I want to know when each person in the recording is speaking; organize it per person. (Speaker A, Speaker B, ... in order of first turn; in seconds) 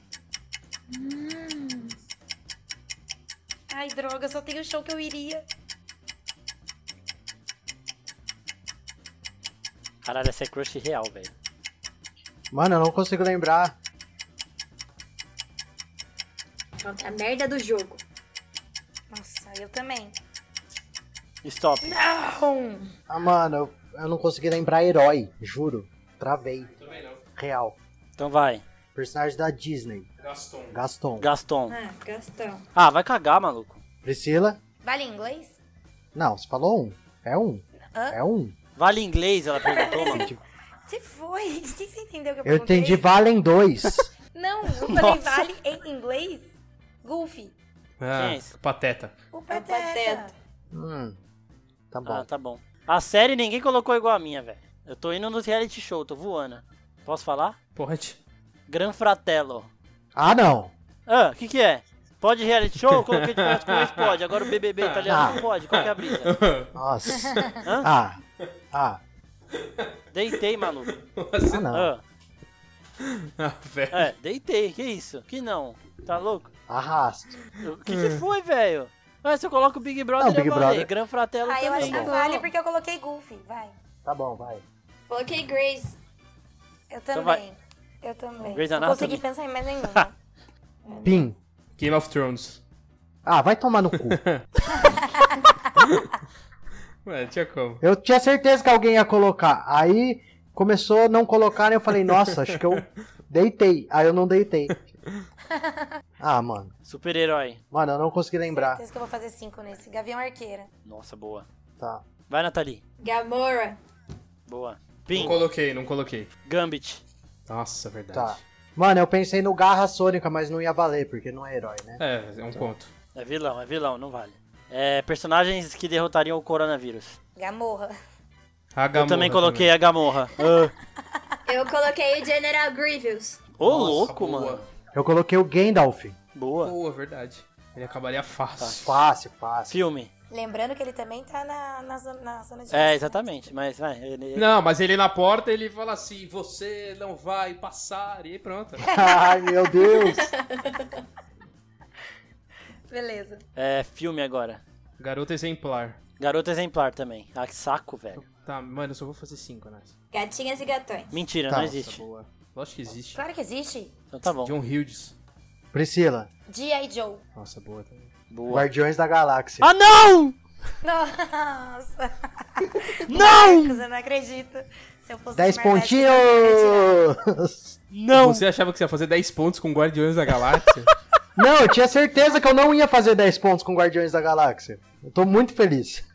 Speaker A: 0.9-1.9, 16.8-18.0, 31.7-32.6, 49.5-50.3, 81.8-82.5, 85.1-86.0, 90.8-91.2, 113.0-113.8, 131.4-133.4, 149.8-151.0, 160.1-161.2
Speaker B: 3.7-5.4, 19.1-20.1, 21.8-22.9, 34.8-35.5, 37.9-38.2, 39.7-40.3, 40.9-43.0, 44.3-46.5, 47.0-47.5, 49.3-50.3, 81.4-83.7, 86.9-90.1, 94.7-95.5, 105.5-105.9, 108.5-110.7, 127.3-127.9, 140.3-143.5, 148.9-149.2, 152.9-153.4, 163.1-163.9, 166.5-167.2, 170.8-177.0
Speaker C: 10.0-11.3, 21.4-22.0, 28.2-28.6, 31.2-31.8, 32.7-33.8, 38.8-40.3, 44.8-45.5, 48.1-48.5, 52.0-57.6, 58.7-59.7, 61.1-66.3, 67.6-67.9, 70.1-70.9, 71.7-72.0, 73.9-76.5, 77.6-82.1, 87.1-87.4, 88.4-89.2, 106.8-107.6, 110.8-111.5, 112.3-112.8, 114.5-115.4, 116.5-117.0, 123.1-127.2, 128.9-130.7, 133.6-134.7, 136.3-136.7, 138.6-138.9, 139.7-140.1, 142.7-144.5, 153.6-154.6, 156.2-158.2, 161.1-162.0, 164.1-164.5, 168.3-168.7, 169.6-170.4, 173.1-173.8, 177.9-178.4
Speaker D: 12.5-13.7, 23.1-26.7, 27.4-27.8, 28.9-30.1, 30.7-31.3, 34.0-34.6, 36.1-38.5, 40.0-40.4, 42.4-44.1, 50.7-51.2, 51.9-52.2, 60.1-60.7, 65.0-65.4, 66.7-68.2, 68.7-69.0, 71.5-71.9, 76.7-77.4, 80.2-80.9, 81.8-82.1, 84.0-84.6, 91.0-91.3, 93.2-94.2, 97.8-104.7, 106.2-106.7, 107.7-108.8, 111.8-112.0, 115.1-115.4, 118.1-122.0, 134.9-136.2, 138.8-139.8, 148.8-150.3, 161.5-161.8, 165.7-166.3, 168.5-169.7, 175.3-177.8, 181.3-186.0
Speaker E: 26.8-27.2, 30.2-30.7, 48.0-49.1, 57.7-58.2, 62.9-67.6, 69.5-69.9, 70.9-71.7, 73.0-74.1, 77.9-78.2, 91.8-92.6, 94.0-94.4, 95.8-96.1, 97.0-97.8, 102.2-102.9, 104.7-105.2, 115.1-116.3, 117.5-118.4, 122.0-122.9, 128.7-129.7, 133.6-134.6, 136.6-138.9, 144.3-148.9, 155.0-156.0, 158.2-159.9, 161.6-163.2, 164.4-165.1, 167.3-168.1, 178.1-180.9